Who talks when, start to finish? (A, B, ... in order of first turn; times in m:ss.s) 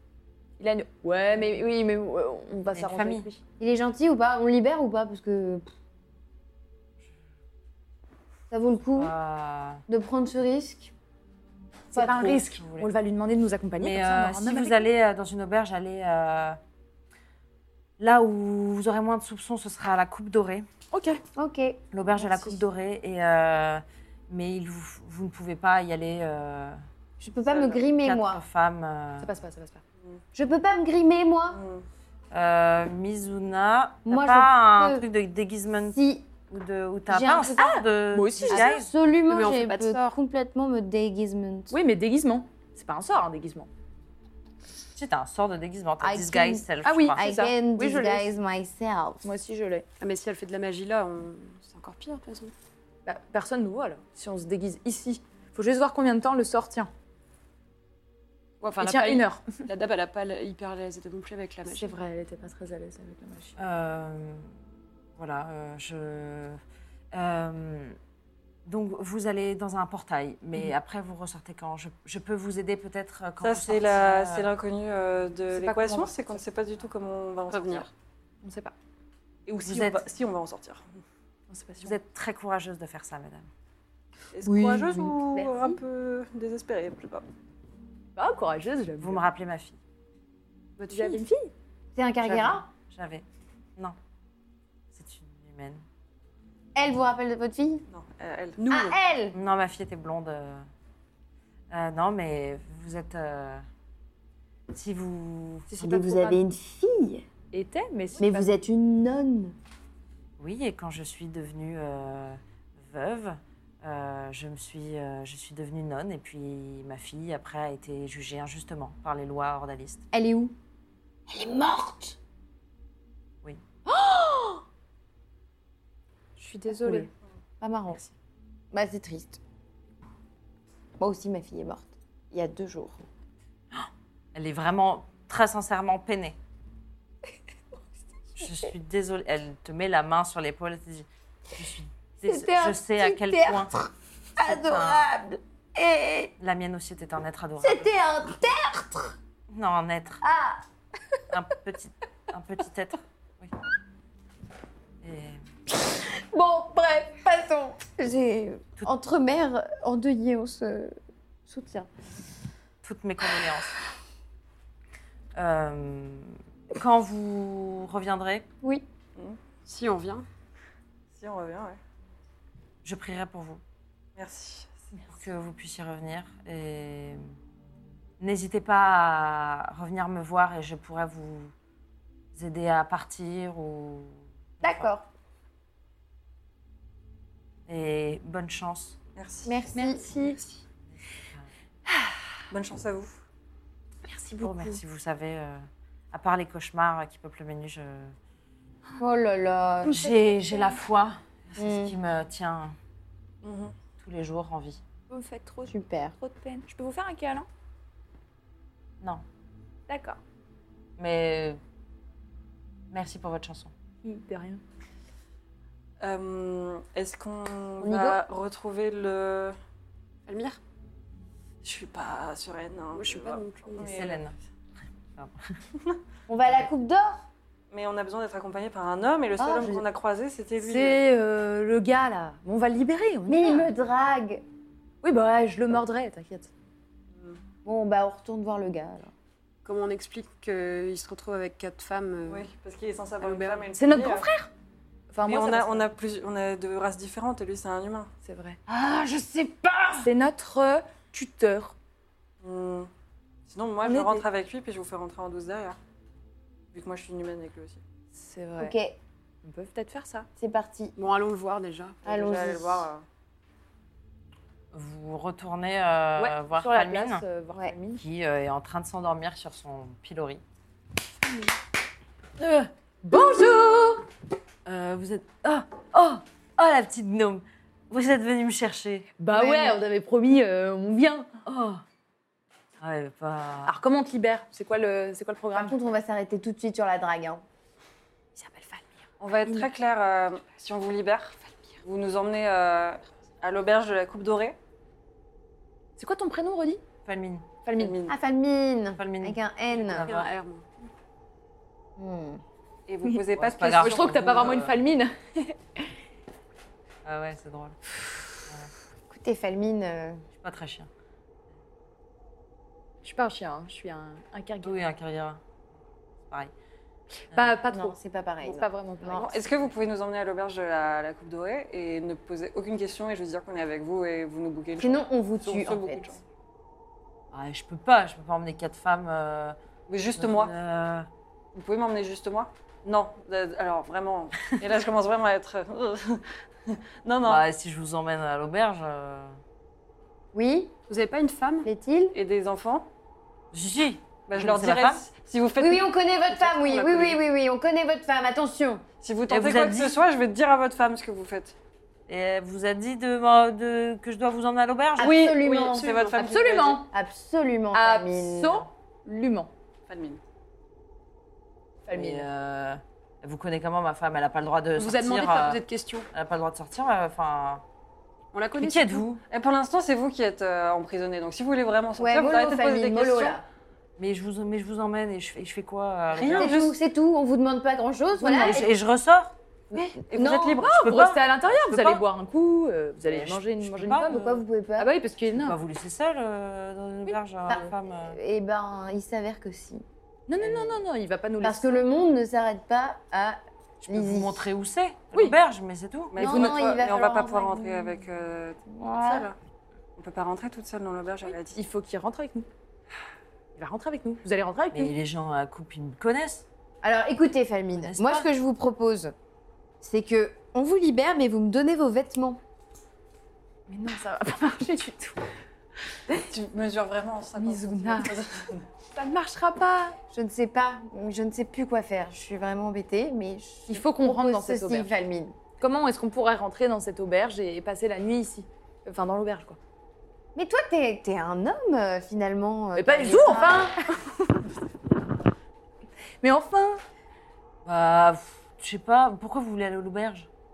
0:00.6-0:03.4 A
0:02.7-0:03.3 B
0:03.6-0:05.7 C
0:08.5-0:09.1 C
0:09.0-0:09.8 B
0:09.9-0:10.9 C
0:11.9-0:14.8 A
0:11.9-0:12.4 C
0:12.3-0:12.9 B
0:13.8-0:16.6 B
0:18.0-0:20.7 B
0:20.9-0:21.2 A
0:21.4-0:21.8 C
0:21.9-0:26.8 B
0:22.2-0:22.6 A
0:27.2-0:28.4 C
0:27.5-0:27.8 D
0:27.9-0:29.3 B
0:29.2-0:29.8 A
0:30.3-0:31.6 C
0:31.5-0:31.8 D
0:32.3-0:36.0 B
0:34.1-0:35.0 C
0:35.9-0:36.3 C
0:36.5-0:38.9 B
0:37.1-0:37.7 C
0:37.6-0:38.6 A
0:38.4-0:41.7 C
0:39.3-0:40.0 E
0:41.7-0:43.7 A
0:45.0-0:47.2 B
0:46.0-0:49.2 C
0:46.8-0:48.3 A
0:49.2-0:49.8 A
0:50.0-0:52.5 E
0:53.0-0:56.9 A
0:58.6-1:01.9 E
0:58.8-0:59.6 A
1:01.7-1:03.6 A
1:03.6-1:04.6 B
1:05.2-1:06.6 B
1:07.1-1:08.0 B
1:08.6-1:14.5 B
1:13.4-1:17.9 D
1:15.5-1:16.4 A
1:17.5-1:17.9 E
1:18.4-1:18.7 A
1:19.5-1:20.8 D
1:19.6-1:20.0 B
1:21.5-1:21.9 A
1:21.8-1:23.5 B
1:24.3-1:27.3 D
1:24.4-1:25.8 C
1:28.2-1:29.2 A
1:29.0-1:29.8 B
1:30.8-1:31.2 E
1:30.9-1:31.5 A
1:32.0-1:32.7 C
1:32.2-1:33.2 B
1:34.9-1:35.8 B
1:36.7-1:37.8 C
1:37.9-1:38.6 D
1:38.6-1:39.0 E
1:38.7-1:39.4 C
1:39.3-1:40.7 B
1:41.7-1:43.6 B
1:44.7-1:46.0 B
1:45.7-1:46.4 A
1:45.7-1:47.2 C
1:47.5-1:48.5 A
1:48.2-1:49.6 C
1:50.4-2:00.0 B
2:00.1-2:00.5 C
2:01.3-2:02.2 C
2:03.8-2:04.6 C
2:06.4-2:07.1 A
2:06.7-2:07.1 C
2:07.6-2:08.0 C
2:08.7-2:09.4 C
2:11.0-2:13.0 C
2:13.7-2:16.4 B
2:18.4-2:23.7 B
2:22.2-2:26.3 C
2:24.4-2:25.1 B
2:26.4-2:27.9 B
2:27.6-2:29.2 C
2:29.5-2:30.2 B
2:30.2-2:30.6 C
2:31.3-2:33.5 B
2:35.0-2:35.4 B
2:35.8-2:41.0 C
2:41.5-2:41.9 C
2:42.8-2:43.8 B
2:45.3-2:48.5 B
2:49.6-2:50.2 E
2:51.1-2:51.8 D
2:52.8-2:53.6 B
2:54.2-2:54.9 D
2:55.1-2:57.2 B
2:58.2-3:01.5 B
3:02.3-3:04.9 B
3:04.6-3:05.1 C
3:07.7-3:09.0 B
3:09.2-3:09.5 D
3:09.4-3:10.1 C
3:09.7-3:10.6 A
3:11.0-3:11.5 B
3:12.5-3:13.1 D
3:14.1-3:14.8 A
3:14.4-3:18.2 B
3:19.0-3:20.0 C
3:19.8-3:20.8 A
3:19.8-3:22.8 B
3:21.6-3:21.9 C
3:23.4-3:23.7 D
3:24.0-3:24.8 B
3:25.1-3:27.5 A
3:25.7-3:26.2 C
3:29.9-3:30.2 A
3:31.0-3:31.6 B
3:32.9-3:33.7 B
3:34.0-3:34.6 A
3:36.0-3:39.6 D
3:37.8-3:38.2 C
3:40.3-3:40.6 E
3:41.6-3:44.3 D
3:42.9-3:43.8 E
3:43.8-3:44.3 B
3:45.1-3:45.5 B
3:46.3-3:47.2 C
3:46.4-3:46.7 B
3:47.7-3:51.0 D
3:49.4-3:49.8 C
3:50.6-3:53.7 A
3:53.3-3:54.4 C
3:55.0-3:56.5 A
3:57.6-3:59.1 C
3:59.6-4:02.4 E
4:02.3-4:04.3 D
4:03.2-4:03.7 E
4:03.7-4:04.5 A
4:05.1-4:05.8 A
4:05.2-4:08.1 D
4:08.2-4:08.6 A
4:08.7-4:10.1 B
4:10.0-4:11.7 A
4:12.4-4:12.9 D
4:13.5-4:15.8 D
4:13.8-4:14.2 A
4:16.7-4:17.8 D
4:18.1-4:18.7 A
4:18.6-4:19.0 C
4:19.4-4:20.3 A
4:20.4-4:20.9 C
4:21.0-4:22.0 E
4:22.0-4:22.9 C
4:22.0-4:23.0 D
4:24.7-4:27.2 B
4:26.2-4:28.0 A
4:28.0-4:30.4 B
4:31.2-4:31.5 A
4:32.4-4:34.0 A
4:34.6-4:39.2 B
4:39.2-4:41.3 A
4:39.3-4:39.8 C
4:41.4-4:41.8 B
4:42.8-4:43.8 B
4:43.6-4:45.8 A
4:45.5-4:47.4 C
4:48.3-4:49.7 A
4:49.2-4:54.6 D
4:56.0-4:56.8 A
4:57.0-4:57.5 B
4:57.6-4:58.0 A
4:57.7-4:58.1 D
4:58.1-5:00.1 C
4:59.0-5:00.3 B
5:00.0-5:00.6 E
5:02.0-5:02.4 C
5:02.9-5:04.5 D
5:03.1-5:05.9 A
5:03.3-5:04.8 B
5:07.0-5:07.8 B
5:09.1-5:10.2 C
5:10.4-5:10.9 B
5:13.0-5:14.8 A
5:14.6-5:15.4 B
5:17.3-5:19.3 A
5:17.3-5:17.6 B
5:17.7-5:19.3 C
5:19.2-5:26.2 D
5:24.8-5:26.1 C
5:27.3-5:29.6 B
5:29.9-5:30.5 D
5:30.1-5:31.1 B
5:31.5-5:37.4 D
5:37.2-5:39.4 B
5:40.3-5:40.7 C
5:40.9-5:41.7 E
5:41.6-5:42.1 C
5:42.1-5:42.9 D
5:43.5-5:45.0 B
5:44.3-5:45.9 D
5:45.6-5:48.8 C
5:46.3-5:47.2 E
5:49.0-5:51.5 D
5:49.3-5:50.0 B
5:52.1-5:55.2 B
5:55.0-5:56.2 C
5:55.0-5:56.8 D
5:55.4-5:56.3 E
5:56.2-5:56.9 A
5:56.8-5:58.7 C
5:57.7-5:59.5 A
5:59.9-6:00.2 D
6:01.8-6:02.2 A
6:01.9-6:07.6 B
6:04.8-6:06.1 E
6:08.3-6:09.0 E
6:08.6-6:09.2 B
6:09.3-6:13.4 D
6:12.0-6:13.4 C
6:14.0-6:16.6 B
6:16.1-6:16.8 D
6:16.2-6:18.7 C
6:18.2-6:18.6 A
6:18.4-6:19.3 B
6:19.7-6:20.6 C
6:19.8-6:25.6 A
6:20.1-6:20.8 D
6:20.6-6:22.0 B
6:23.0-6:24.4 B
6:24.1-6:24.9 C
6:25.3-6:28.2 B
6:27.5-6:29.8 C
6:30.3-6:31.8 A
6:30.4-6:30.8 B
6:31.4-6:34.5 C
6:33.8-6:36.1 B
6:36.1-6:39.3 D
6:36.2-6:38.0 C
6:36.2-6:36.8 A
6:38.7-6:39.3 C
6:40.0-6:41.6 D
6:41.2-6:42.5 A
6:43.6-6:44.9 A
6:44.7-6:46.4 B
6:46.8-6:49.1 C
6:47.7-6:48.3 B
6:49.8-6:52.4 C
6:53.7-6:55.2 A
6:56.1-6:58.6 D
6:57.4-6:58.2 A
6:58.9-7:00.0 A
7:00.1-7:05.4 C
7:03.7-7:04.9 A
7:05.6-7:09.6 A
7:10.3-7:13.7 C
7:12.8-7:14.4 A
7:16.2-7:16.8 A
7:17.6-7:20.3 B